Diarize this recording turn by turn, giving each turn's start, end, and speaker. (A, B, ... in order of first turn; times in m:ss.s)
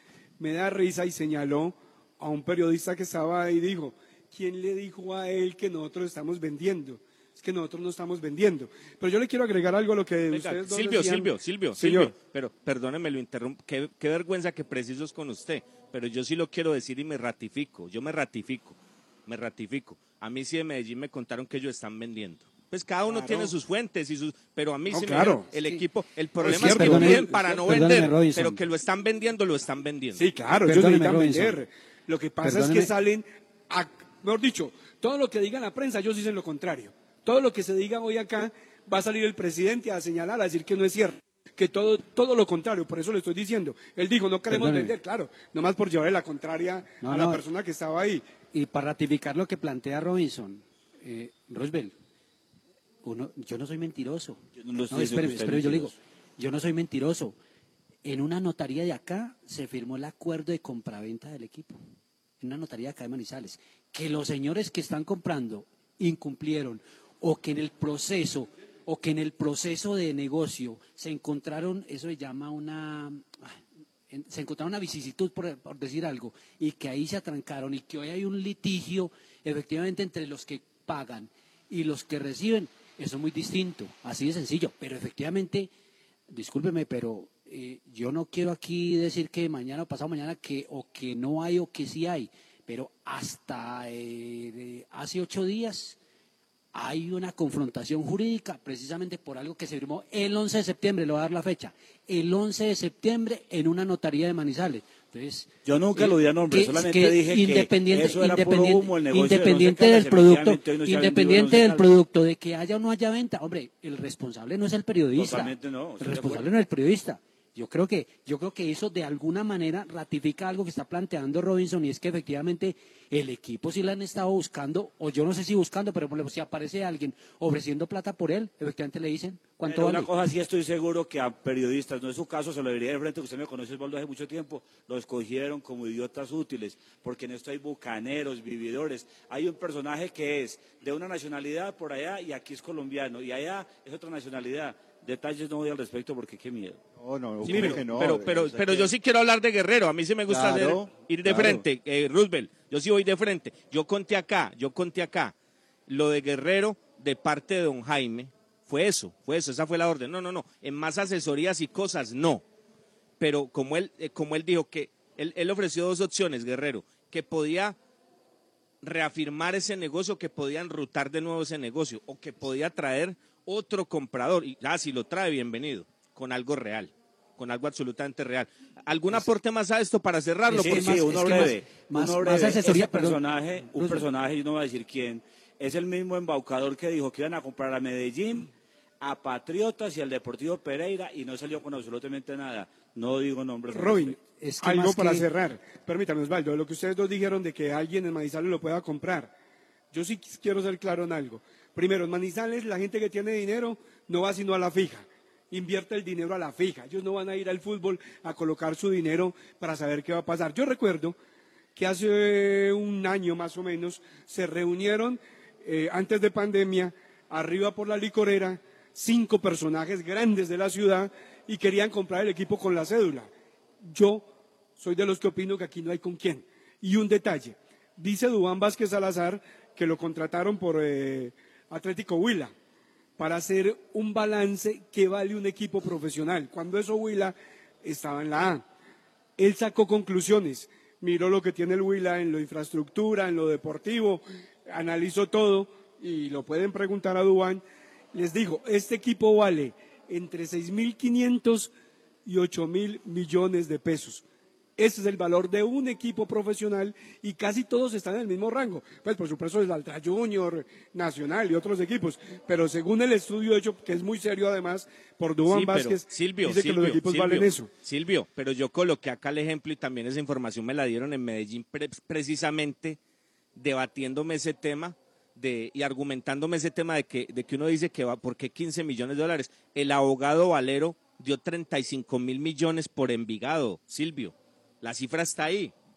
0:00.4-0:12.2 A
0:10.3-0:30.3 B
0:23.1-0:23.6 A
0:24.9-0:25.5 A
0:26.4-0:27.7 A
0:26.5-0:28.6 C
0:30.2-0:48.2 A
0:30.7-0:31.6 C
0:32.4-0:32.9 C
0:44.5-0:44.9 C
0:47.0-0:47.4 C
0:48.5-0:51.9 C
0:53.0-0:57.4 C
0:54.6-0:56.0 D
0:58.0-1:01.8 C
1:02.4-1:13.6 C
1:14.1-1:25.7 C
1:26.3-1:36.0 C
1:36.7-2:10.1 C
1:45.6-1:51.9 D
1:55.2-1:56.5 D
2:09.6-2:26.8 D
2:27.0-2:28.9 E
2:27.4-2:35.3 B
2:30.3-2:31.6 E
2:35.9-2:42.4 B
2:43.2-2:47.8 B
2:48.8-3:01.1 B
3:00.5-3:04.0 C
3:00.5-3:08.5 D
3:09.0-3:14.2 D
3:13.7-3:19.3 A
3:14.4-3:15.3 C
3:19.9-3:31.2 A
3:31.8-3:43.3 A
3:43.8-3:44.3 A
3:44.8-3:52.5 A
3:53.2-3:58.6 A
3:59.4-4:07.6 A
4:08.1-4:11.7 A
4:12.2-4:14.2 A
4:14.8-4:27.7 A
4:25.5-4:33.0 B
4:33.6-4:45.7 B